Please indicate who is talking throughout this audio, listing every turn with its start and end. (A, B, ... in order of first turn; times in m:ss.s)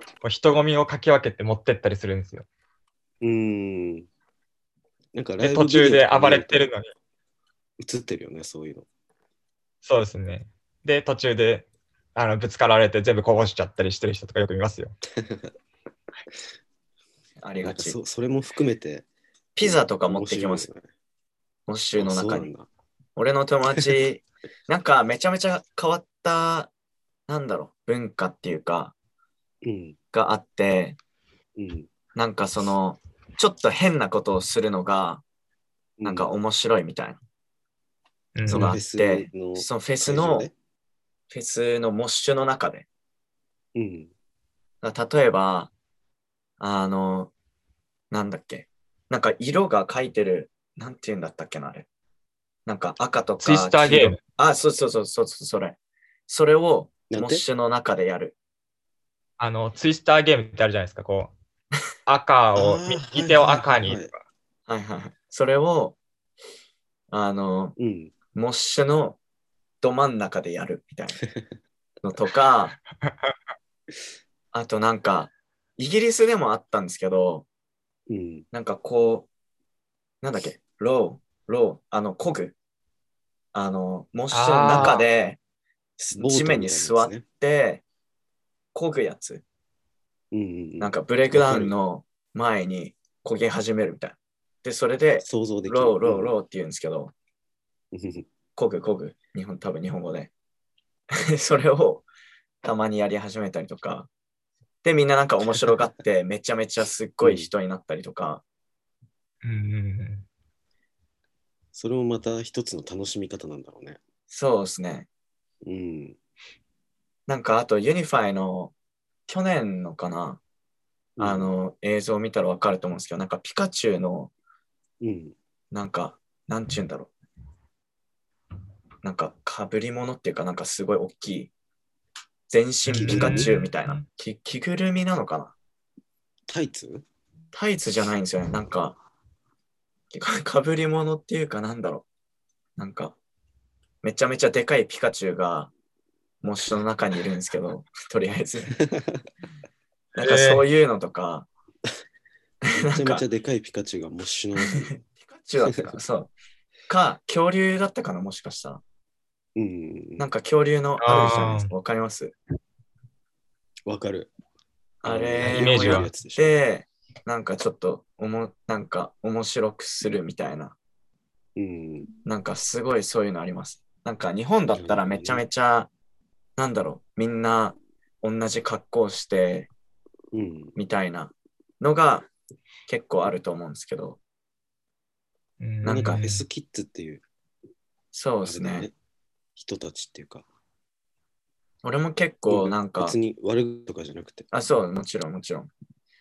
0:00.2-0:02.5 A
0:03.2-0:04.1 B
0:05.1-0:06.7 B
0:05.4-0:06.9 A
0:07.8-0:08.9 B
0:09.8-0:15.0 A
0:15.2-0:15.5 B
0:17.4-0:18.0 C
0:17.6-0:19.1 B
0:19.6-0:20.7 C
0:19.6-0:20.9 B
0:21.7-0:22.5 C
0:22.0-0:22.7 B
0:23.2-0:26.7 C
0:27.3-0:28.9 C
0:29.6-0:30.0 B
0:30.1-0:31.0 C
0:31.6-0:31.9 B
0:32.2-0:35.2 C
0:36.0-0:36.3 B
0:36.0-0:37.2 C
0:38.4-0:38.8 A
0:38.5-0:40.5 B
0:38.5-0:40.5 C
0:41.3-0:42.9 C
0:43.8-0:44.1 B
0:44.8-0:45.7 C
0:46.6-0:47.3 C
0:48.1-0:51.9 C
0:52.7-0:58.4 C
0:53.4-0:54.2 A
0:57.1-0:57.4 B
0:59.4-1:01.3 A
1:02.1-1:04.2 A
1:02.6-1:04.1 B
1:04.7-1:06.0 C
1:07.1-1:07.8 C
1:07.8-1:08.1 B
1:08.3-1:09.2 C
1:09.8-1:11.2 C
1:12.0-1:12.8 C
1:14.5-1:17.5 C
1:18.1-1:18.5 B
1:18.5-1:19.3 C
1:20.2-1:22.6 C
1:23.5-1:25.4 C
1:24.3-1:25.0 A
1:26.0-1:27.8 C
1:26.2-1:27.2 B
1:28.7-1:29.4 C
1:30.3-1:31.8 B
1:30.8-1:37.1 C
1:35.2-1:36.4 B
1:37.9-1:38.3 B
1:38.6-1:40.3 C
1:41.1-1:42.1 C
1:42.6-1:44.1 C
1:44.8-1:48.4 C
1:47.2-1:47.5 B
1:49.4-1:50.3 A
1:51.7-1:54.0 B
1:54.3-1:55.1 C
1:55.6-1:56.2 B
1:57.3-1:58.7 C
1:59.3-2:00.4 C
2:01.2-2:01.5 B
2:01.2-2:04.3 C
2:05.0-2:05.4 B
2:05.7-2:07.1 C
2:09.0-2:11.5 C
2:12.5-2:15.6 C
2:12.9-2:14.0 A
2:13.0-2:13.6 B
2:16.5-2:17.0 B
2:17.5-2:19.0 C
2:20.1-2:22.1 C
2:22.8-2:23.2 C
2:24.0-2:25.7 C
2:26.4-2:28.8 C
2:28.8-2:29.2 B
2:30.2-2:31.5 C
2:30.2-2:30.6 A
2:32.7-2:33.2 C
2:32.7-2:34.9 B
2:34.9-2:36.3 C
2:35.7-2:36.0 B
2:36.9-2:38.8 C
2:39.6-2:40.3 B
2:40.2-2:42.3 C
2:41.0-2:41.7 A
2:43.9-2:44.3 B
2:45.0-2:50.8 C
2:45.0-2:46.6 B
2:45.4-2:46.1 A
2:51.6-2:52.1 B
2:52.2-2:55.9 C
2:54.7-2:55.5 B
2:56.6-2:59.7 C
3:00.3-3:00.8 B
3:00.8-3:02.3 C
3:02.9-3:04.2 C
3:05.6-3:06.4 A
3:05.8-3:06.2 C
3:05.9-3:07.2 B
3:08.1-3:08.9 C
3:08.4-3:08.9 B
3:09.6-3:10.5 B
3:11.8-3:13.2 C
3:12.5-3:14.5 B
3:14.5-3:15.7 C